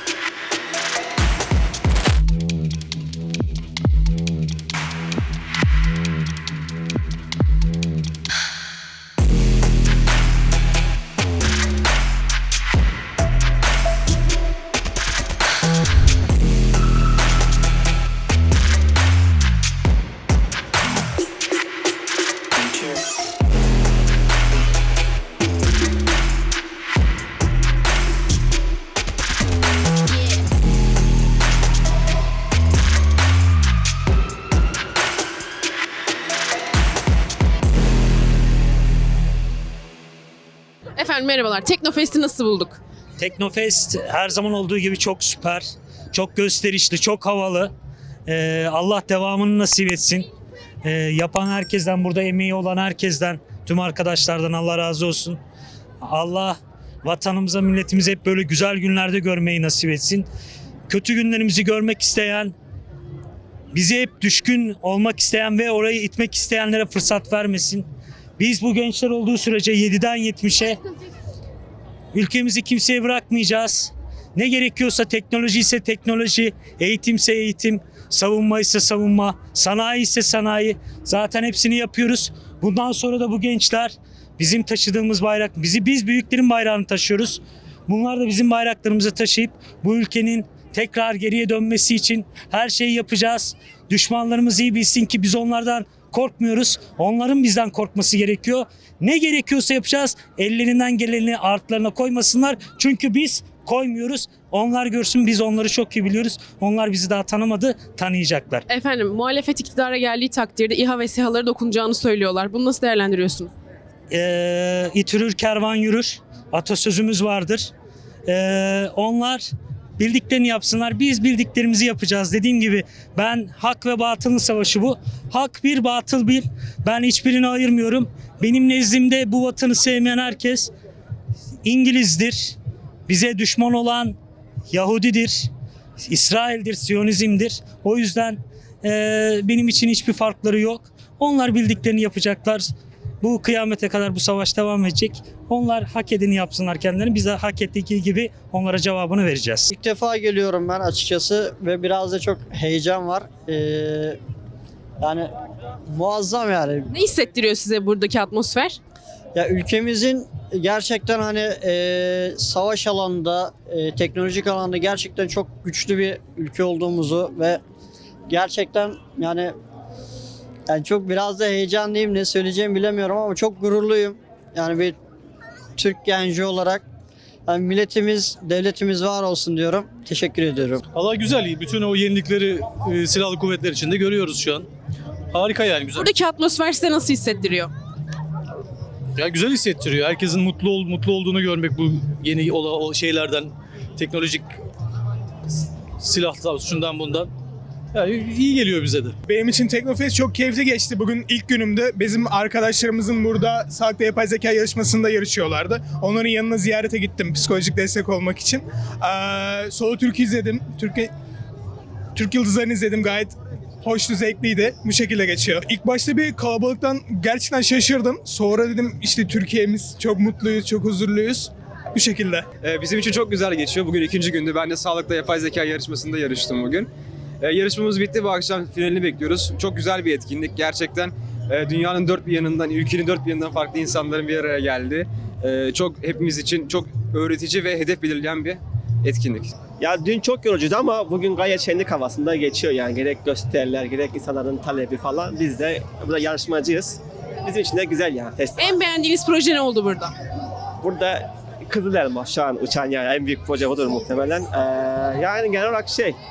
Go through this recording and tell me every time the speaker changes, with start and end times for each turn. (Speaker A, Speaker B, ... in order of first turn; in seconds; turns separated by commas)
Speaker A: 41.0-42.8, Speaker B: 43.2-47.7, Speaker B: 48.3-50.3, Speaker B: 50.8-55.4, Speaker B: 56.0-60.3, Speaker B: 60.9-62.5, Speaker B: 63.7-67.9, Speaker B: 68.4-70.8, Speaker B: 72.1-108.6, Speaker A: 108.7-113.5, Speaker B: 114.1-117.7, Speaker B: 118.3-119.5, Speaker B: 120.0-130.7, Speaker B: 131.7-134.2, Speaker B: 134.7-135.5, Speaker B: 136.1-142.7, Speaker B: 143.2-149.7, Speaker C: 149.7-154.2, Speaker C: 155.0-155.3, Speaker C: 155.9-156.9, Speaker A: 156.9-158.8, Speaker C: 159.3-167.6, Speaker C: 168.3-169.5, Speaker C: 170.7-175.0, Speaker C: 175.8-176.8, Speaker C: 177.5-180.8, Speaker D: 181.0-184.6, Speaker D: 185.4-185.9, Speaker A: 185.9-187.7, Speaker D: 189.2-193.5, Speaker D: 194.0-194.4, Speaker D: 196.1-197.3, Speaker D: 198.0-199.1, Speaker E: 199.3-211.1, Speaker E: 212.2-222.5, Speaker F: 222.6-226.9, Speaker F: 227.4-239.6, Speaker G: 239.8-248.6, Speaker A: 248.6-250.1, Speaker G: 250.8-256.2